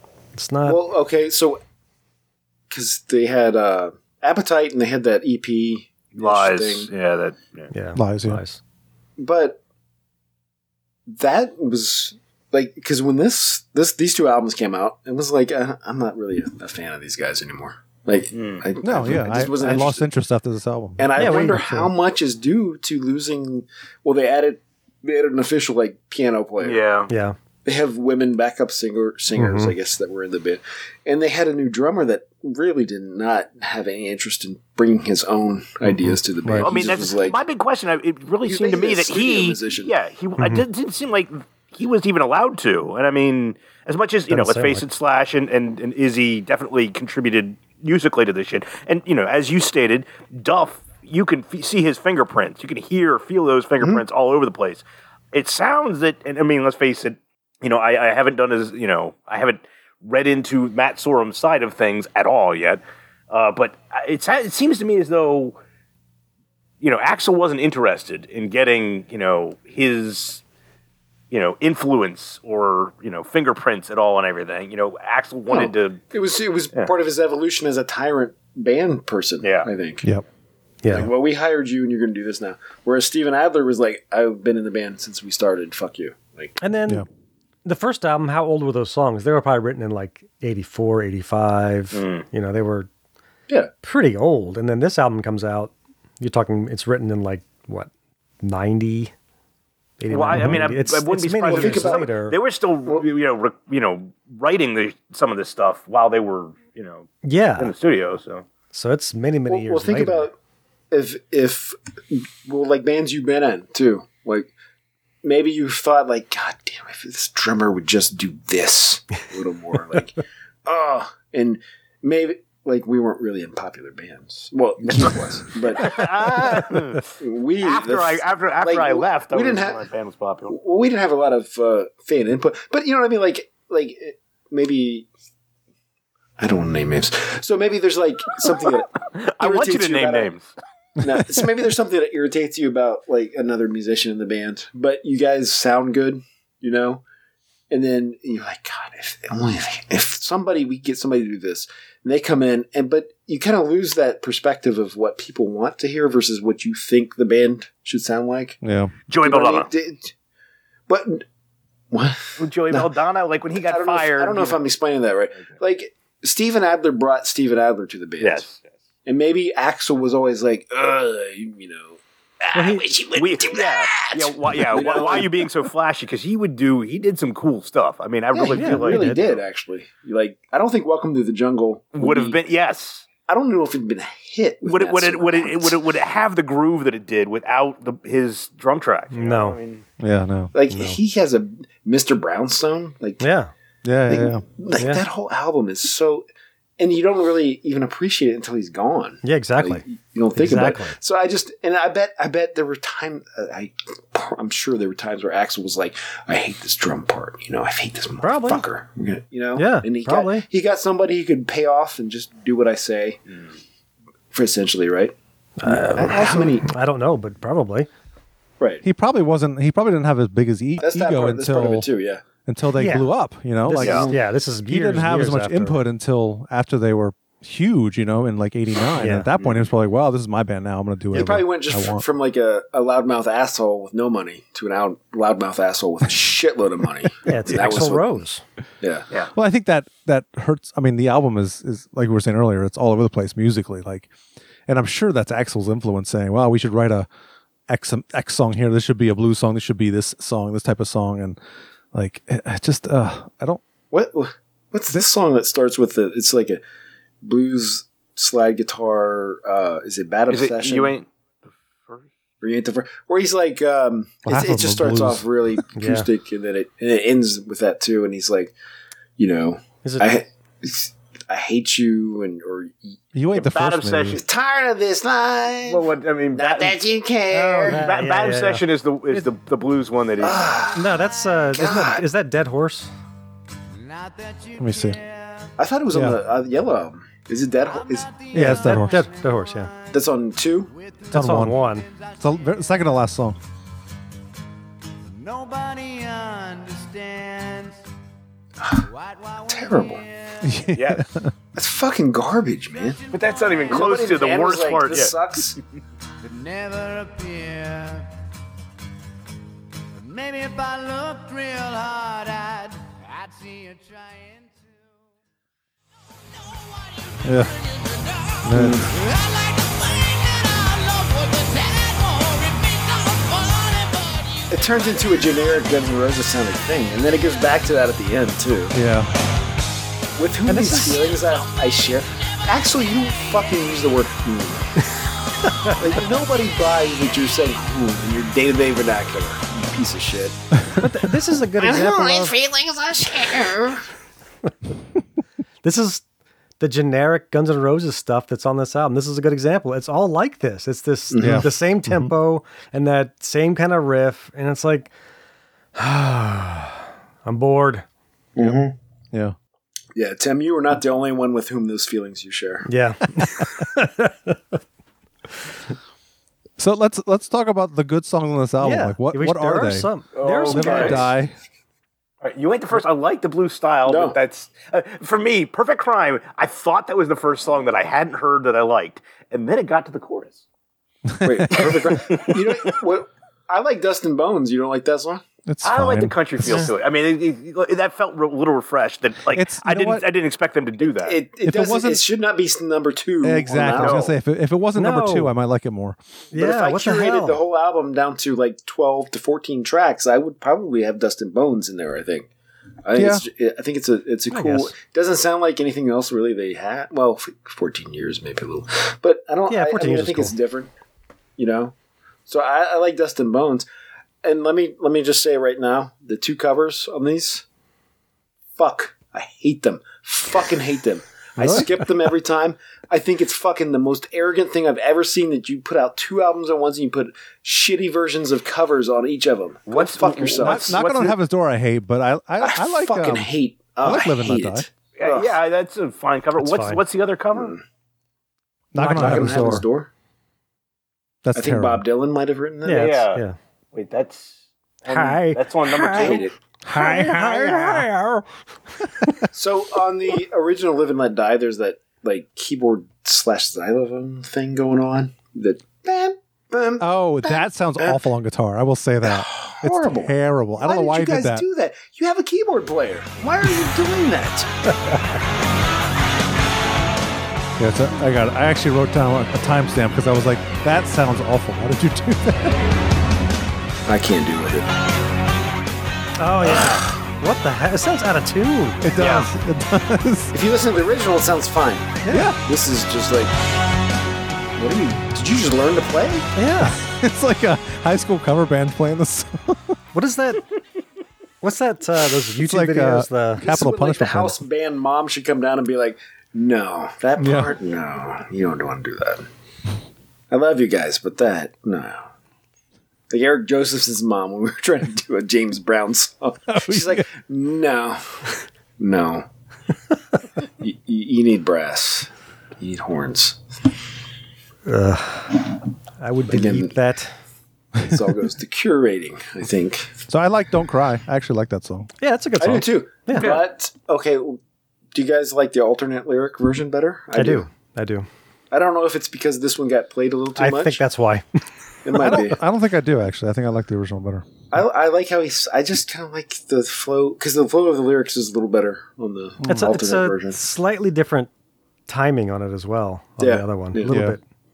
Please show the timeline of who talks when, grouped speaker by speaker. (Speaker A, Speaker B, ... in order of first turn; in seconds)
Speaker A: 0.3-0.8, 7.7-8.6, 21.1-21.9, 27.1-27.4, 29.4-29.7, 40.4-40.6, 44.3-44.8, 80.8-81.1, 86.6-87.0, 87.6-92.9, 93.8-97.9, 98.4-99.1, 100.0-102.4, 107.2-107.7, 108.7-110.3, 172.5-172.9, 178.5-179.2, 189.1-189.6, 190.7-191.0, 193.2-193.5, 194.8-195.0, 199.2-199.8, 200.4-200.9, 208.2-208.6, 209.6-210.4, 215.6-217.9, 222.7-223.1, 223.6-225.8, 229.0-229.3, 231.1-231.4, 237.3-238.4, 265.8-266.1, 269.8-270.1, 277.3-279.3, 280.7-282.9, 288.3-289.7, 291.1-291.9, 330.5-331.0, 340.8-342.3, 345.6-346.0, 346.6-354.9, 355.8-357.8, 362.7-364.6, 368.6-371.1, 394.8-395.3, 396.3-397.4, 404.3-404.7, 409.5-410.4, 421.4-421.7, 436.4-436.8, 438.8-439.6, 442.6-443.4, 444.9-448.2, 476.2-478.9, 482.0-482.3, 486.4-486.8, 489.9-490.4, 491.4-493.4, 514.7-515.5, 516.0-517.1, 522.0-523.4, 527.1-528.1, 530.4-531.2, 539.5-541.3, 541.9-544.2
Speaker B: 0.7-1.6, 2.7-6.9, 9.2-9.6, 11.1-20.1, 21.0-26.8, 27.6-37.4, 38.5-39.9, 75.5-80.1, 80.9-86.6, 101.5-102.1, 109.5-110.3, 110.9-114.5, 115.2-126.0, 127.2-129.8, 130.5-135.1, 136.4-140.3, 141.0-147.0, 147.7-158.6, 159.2-160.1, 160.9-161.2, 161.9-162.9, 163.6-168.4, 169.1-172.0, 172.6-175.4, 178.3-182.4, 183.3-185.8, 190.5-193.2, 194.1-196.2, 196.8-213.2, 214.3-215.1, 215.7-216.7, 220.8-222.2, 231.1-238.2, 253.9-256.6, 257.2-260.9, 262.4-268.5, 269.2-273.0, 274.2-277.9, 280.2-280.9, 281.5-282.0, 285.6-288.1, 289.9-290.7, 299.5-300.0, 301.6-303.0, 303.7-305.6, 318.5-318.9, 324.5-328.7, 330.2-334.7, 335.7-340.4, 341.6-343.8, 351.1-351.4, 358.4-358.7, 359.9-362.7, 370.6-371.0, 373.9-374.2, 381.2-385.2, 390.8-394.1, 396.3-402.3, 402.8-410.7, 411.4-411.7, 412.3-413.7, 414.2-417.4, 418.6-430.8, 432.4-435.3, 437.4-437.6, 438.8-439.9, 441.4-443.0, 445.9-446.3, 449.3-458.0, 459.0-464.5, 473.9-474.7, 480.3-481.9, 482.4-483.3, 484.6-486.3, 493.4-499.3, 500.3-502.1, 503.1-508.2, 508.8-509.3, 510.6-513.4, 516.3-516.7, 517.8-520.0, 522.4-524.4, 524.9-527.5, 528.5-530.8, 531.8-532.4, 534.5-540.4, 543.2-544.0
Speaker C: 6.1-7.7, 18.3-18.6, 26.6-27.1, 36.6-65.6, 66.8-70.4, 71.3-76.0, 79.4-79.7, 91.9-92.2, 100.1-108.5, 125.8-127.1, 127.6-130.6, 138.5-140.5, 159.1-159.7, 162.4-164.6, 168.2-168.7, 173.1-179.4, 181.9-183.1, 184.6-189.8, 223.8-224.1, 229.4-229.7, 260.3-261.1, 273.3-274.2, 275.7-276.8, 277.6-280.5, 300.7-301.1, 303.1-305.1, 370.2-371.0, 372.2-380.4, 382.0-382.8, 385.6-391.2, 393.8-394.1, 429.7-431.2, 435.0-437.6, 442.7-443.2, 443.7-444.3, 444.8-446.2, 479.0-479.3
Speaker D: 8.0-8.4, 18.8-21.4, 36.1-36.7, 100.3-100.6, 158.6-158.9, 190.0-190.5, 193.8-194.4, 218.8-221.9, 222.5-232.1, 239.3-244.1, 244.7-247.1, 247.7-251.4, 251.9-253.6, 264.3-265.6, 273.1-274.2, 284.6-285.0, 285.9-286.2, 288.3-289.1, 291.1-291.6, 292.2-293.4, 300.4-301.3, 317.2-317.5, 318.4-318.9, 328.7-329.1, 351.2-352.1, 366.6-371.3, 381.1-381.9, 385.4-386.7, 389.3-390.1, 391.4-392.1, 393.2-396.0, 402.9-403.2, 421.4-421.7, 430.4-434.7, 438.7-439.6, 441.2-441.8, 446.7-447.9, 456.8-461.4, 467.6-472.6, 478.8-480.3, 482.1-482.4, 486.6-489.7, 492.3-494.4, 497.2-497.5, 506.5-507.1, 520.1-521.9, 532.0-534.3, 539.4-539.8, 543.9-544.2
Speaker E: 281.2-281.4, 283.7-285.5, 287.6-292.7, 295.1-297.8, 298.7-300.6, 302.7-304.2, 306.2-308.1, 309.9-315.0, 316.4-324.5